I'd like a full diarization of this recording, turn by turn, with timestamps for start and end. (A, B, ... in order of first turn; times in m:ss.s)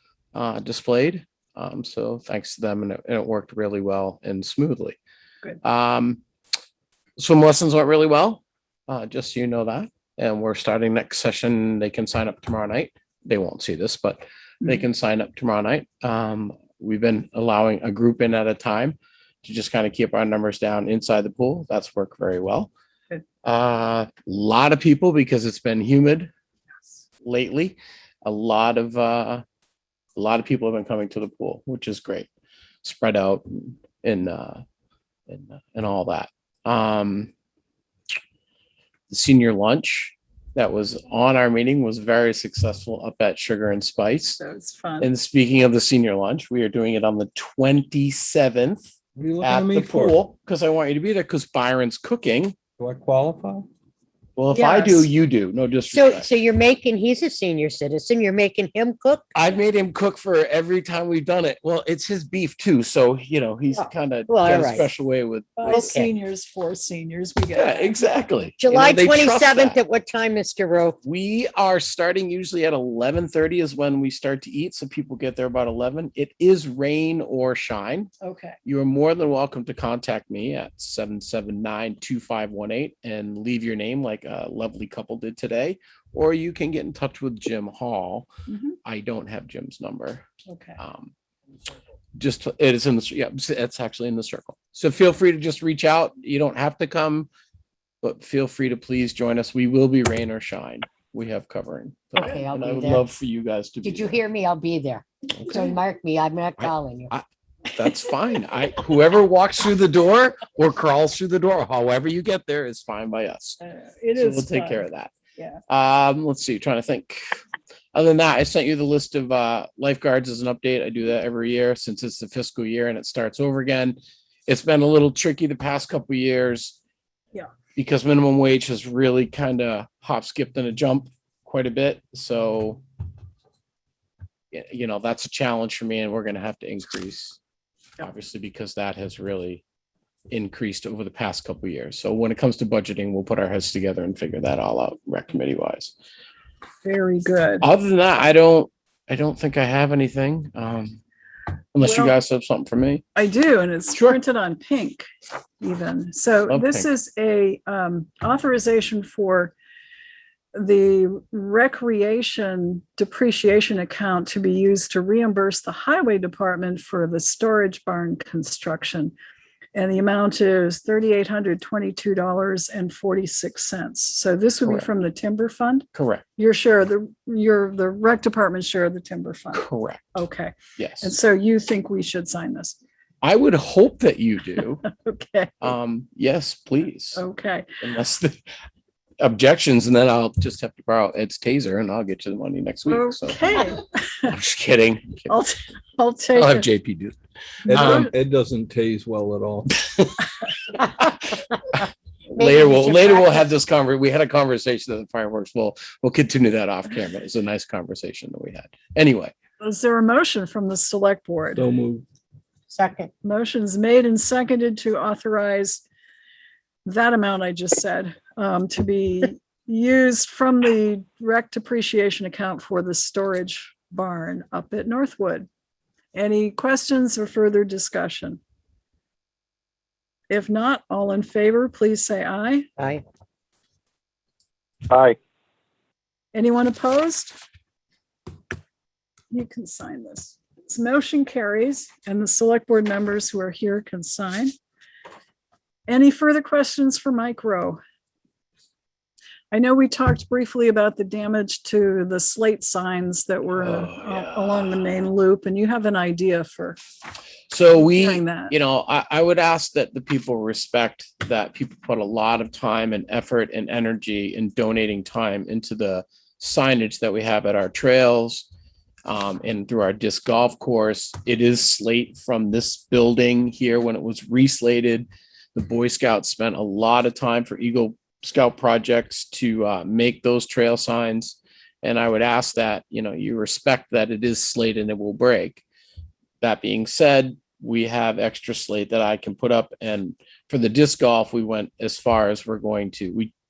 0:00.3-0:05.0 A
0:05.6-0:06.2 A
0:07.2-0:22.7 A
0:23.4-0:26.3 A
0:27.2-0:29.4 A
0:30.2-0:32.3 A
0:32.8-0:34.6 A
0:35.3-0:37.3 A
0:39.1-0:44.4 A
0:44.4-0:45.1 B
0:45.0-0:48.9 A
0:49.2-0:50.2 C
0:49.4-0:52.6 A
0:52.8-0:53.7 C
0:54.4-0:56.3 A
0:54.5-0:55.1 B
0:55.9-0:59.5 D
0:59.4-1:06.1 A
1:03.7-1:04.9 D
1:05.6-1:08.2 B
1:05.7-1:06.1 D
1:07.6-1:09.8 A
1:08.6-1:11.0 D
1:11.0-1:18.1 A
1:18.2-1:18.6 B
1:18.7-1:28.3 A
1:28.5-1:28.8 B
1:28.8-1:30.3 A
1:30.5-1:30.8 B
1:30.8-1:31.1 A
1:32.2-1:37.3 A
1:38.0-1:44.2 A
1:42.2-1:43.0 D
1:43.8-1:47.1 D
1:46.6-1:53.6 A
1:53.6-1:54.9 B
1:54.2-1:55.1 A
1:55.7-1:57.2 A
1:57.9-2:06.8 A
2:07.8-2:12.8 A
2:14.5-2:17.4 A
2:18.0-2:19.6 A
2:20.3-2:25.9 A
2:26.8-2:27.7 B
2:27.6-2:31.0 A
2:31.8-2:33.0 A
2:31.8-2:32.2 B
2:33.2-2:35.1 B
2:35.6-2:39.5 B
2:36.5-2:36.9 A
2:40.6-2:49.1 B
2:49.8-2:55.9 B
2:56.0-2:56.2 A
2:56.4-3:02.8 B
2:59.5-3:00.1 A
3:00.8-3:01.1 A
3:03.2-3:04.8 A
3:04.8-3:05.7 B
3:05.6-3:07.2 A
3:07.2-3:07.7 B
3:07.8-3:08.4 A
3:09.2-3:13.4 A
3:12.9-3:14.4 B
3:14.3-3:15.3 A
3:15.3-3:16.7 B
3:16.4-3:17.2 A
3:17.7-3:19.7 C
3:17.7-3:18.1 B
3:17.7-3:18.1 A
3:20.8-3:21.8 A
3:22.3-3:29.3 A
3:22.4-3:23.5 D
3:29.6-3:31.7 B
3:31.6-3:32.0 C
3:32.7-3:33.1 D
3:33.2-3:35.8 B
3:36.9-3:45.5 B
3:46.1-3:48.4 B
3:50.3-3:52.7 B
3:52.8-3:53.0 D
3:56.3-3:57.4 B
3:59.3-4:04.5 B
4:05.9-4:07.8 B
4:09.5-4:16.8 B
4:13.6-4:14.9 A
4:17.5-4:28.5 A
4:17.8-4:18.5 B
4:29.1-4:45.6 A
4:46.4-4:53.3 A